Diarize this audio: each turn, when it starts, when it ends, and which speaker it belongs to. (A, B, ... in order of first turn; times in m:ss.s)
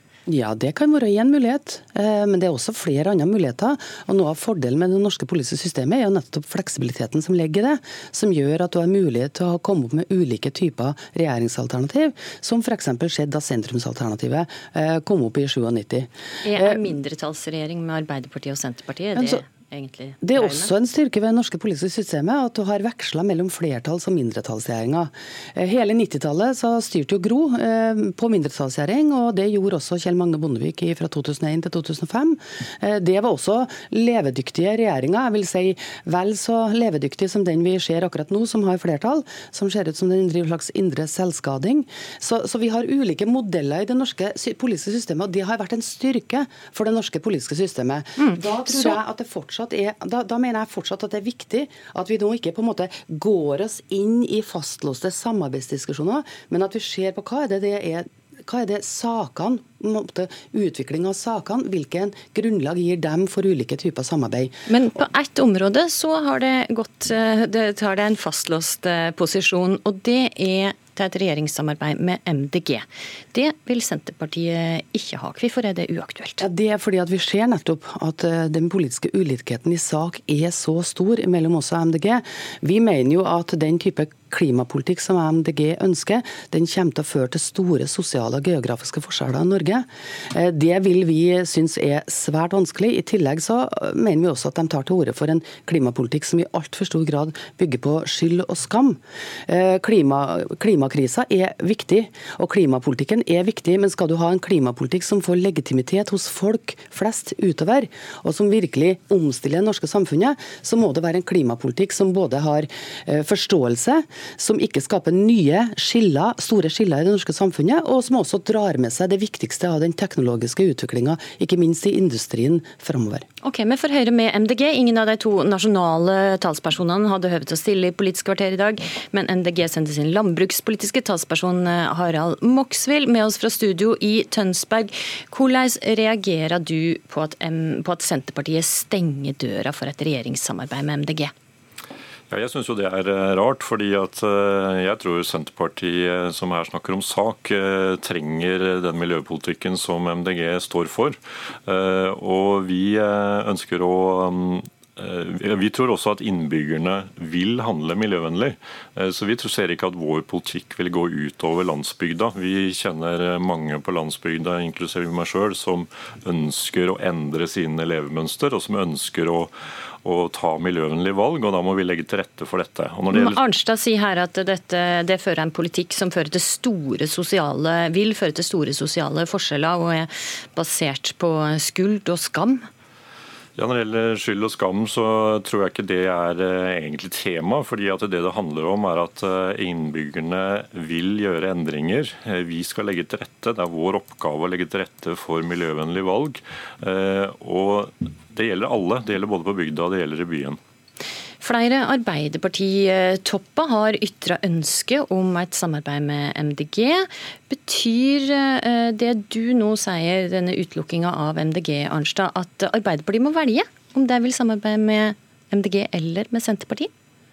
0:00.3-0:16.9 A
0:16.4-0:20.7 B
0:19.2-0:19.4 A
0:20.2-1:04.5 A
0:48.2-0:49.0 B
1:04.7-1:16.4 B
1:16.4-2:03.2 A
2:03.4-2:21.3 B
2:22.3-2:53.4 C
2:53.1-3:02.6 B
3:03.6-3:20.6 C
3:21.4-3:36.9 B